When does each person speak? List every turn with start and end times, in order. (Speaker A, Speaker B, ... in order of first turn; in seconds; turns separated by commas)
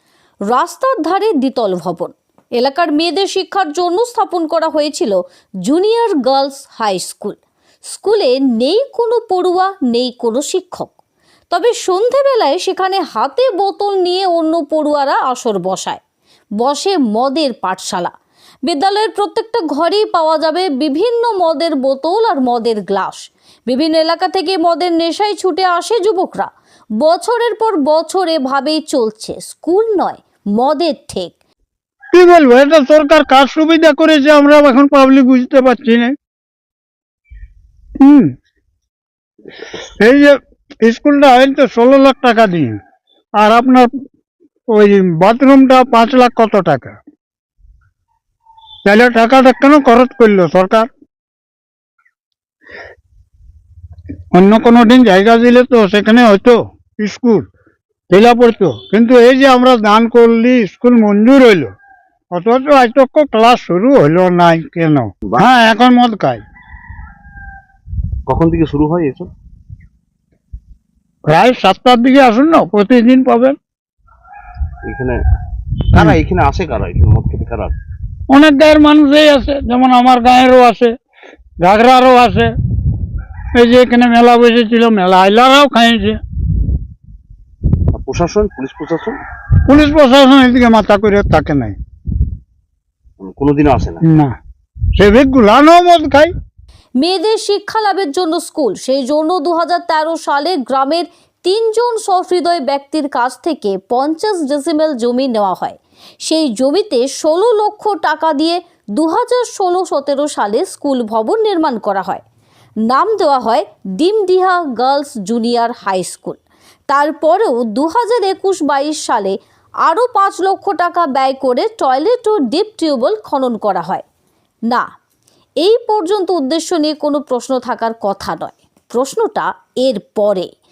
Speaker A: 0.5-7.4, Speaker A: 7.9-10.9, Speaker A: 11.5-16.0, Speaker A: 16.6-18.1, Speaker A: 18.6-26.5, Speaker A: 27.0-31.3, Speaker B: 32.1-36.1, Speaker B: 38.0-38.3, Speaker B: 40.0-42.8, Speaker B: 43.4-43.9, Speaker B: 44.7-47.0, Speaker B: 48.8-50.9, Speaker B: 54.3-57.4, Speaker B: 58.1-61.7, Speaker B: 62.3-66.4, Speaker C: 68.3-69.3, Speaker B: 71.2-73.5, Speaker C: 74.8-75.2, Speaker C: 75.9-77.8, Speaker B: 76.0-76.2, Speaker B: 78.3-80.9, Speaker B: 81.6-82.5, Speaker B: 83.5-86.2, Speaker C: 87.9-89.2, Speaker B: 89.7-91.8, Speaker C: 93.2-94.0, Speaker B: 94.0-94.3, Speaker B: 95.0-96.3, Speaker A: 97.0-112.2, Speaker A: 112.9-116.4, Speaker A: 116.9-119.3, Speaker A: 119.8-124.0, Speaker A: 125.6-130.5